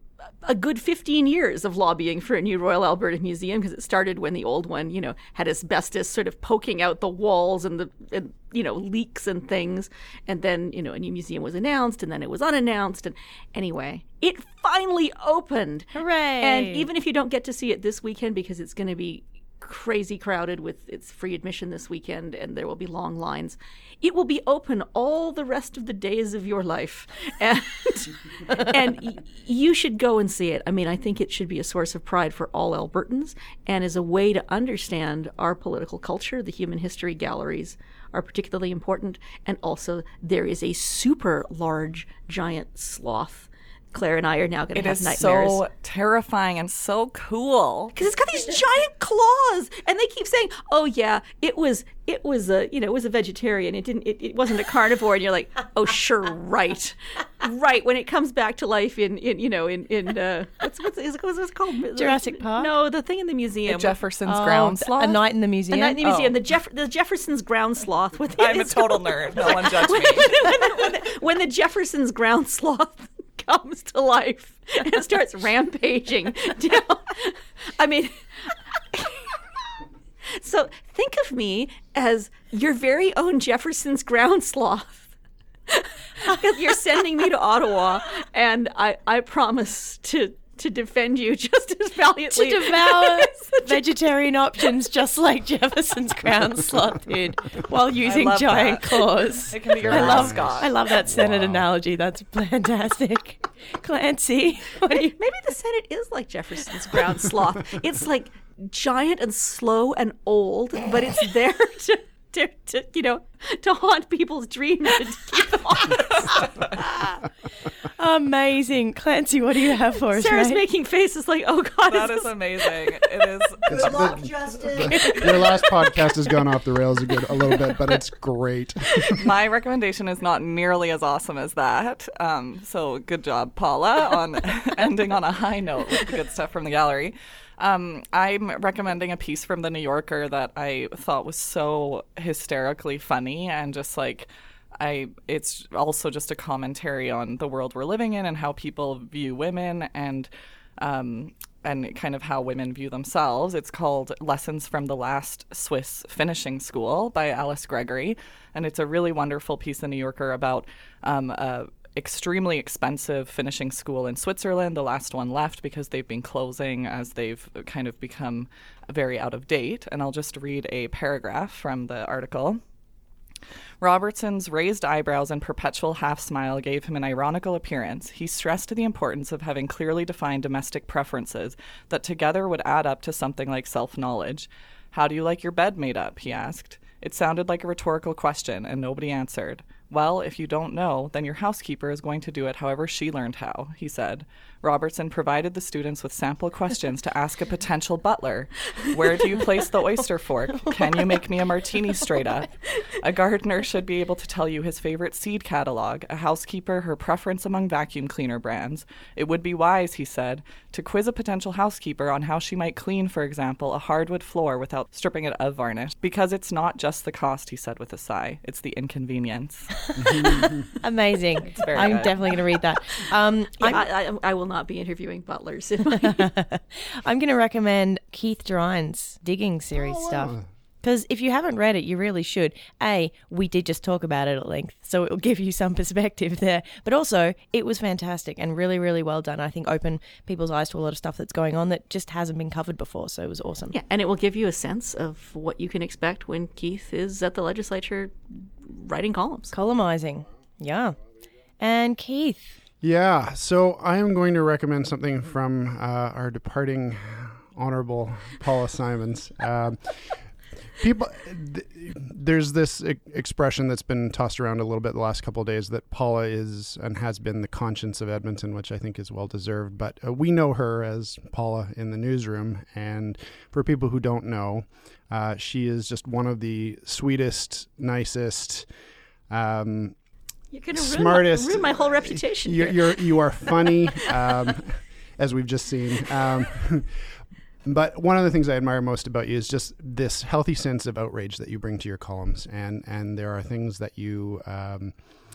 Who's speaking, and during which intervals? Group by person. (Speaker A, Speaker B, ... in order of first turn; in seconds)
Speaker A: 0.4-45.6, 47.9-64.0, 65.7-79.4, 80.3-85.1, 85.7-93.8, 104.9-117.2, 120.1-124.1, 124.9-125.8, 223.6-226.3, 243.7-249.5, 280.5-283.1
Speaker B: 15.9-16.9, 61.9-62.7, 64.2-66.0, 92.3-105.1, 117.8-120.6, 219.9-223.8, 226.0-243.7, 249.5-251.0, 251.6-252.4
Speaker C: 44.7-47.9, 63.6-65.2, 66.0-66.4, 68.4-70.8, 98.0-100.7, 121.8-124.0, 129.1-172.6, 173.8-219.7, 221.5-222.3
Speaker D: 99.8-101.7, 123.7-129.3, 220.0-220.7, 229.8-230.4, 252.8-260.2, 260.8-278.6, 279.3-279.9, 280.7-287.0, 287.6-294.9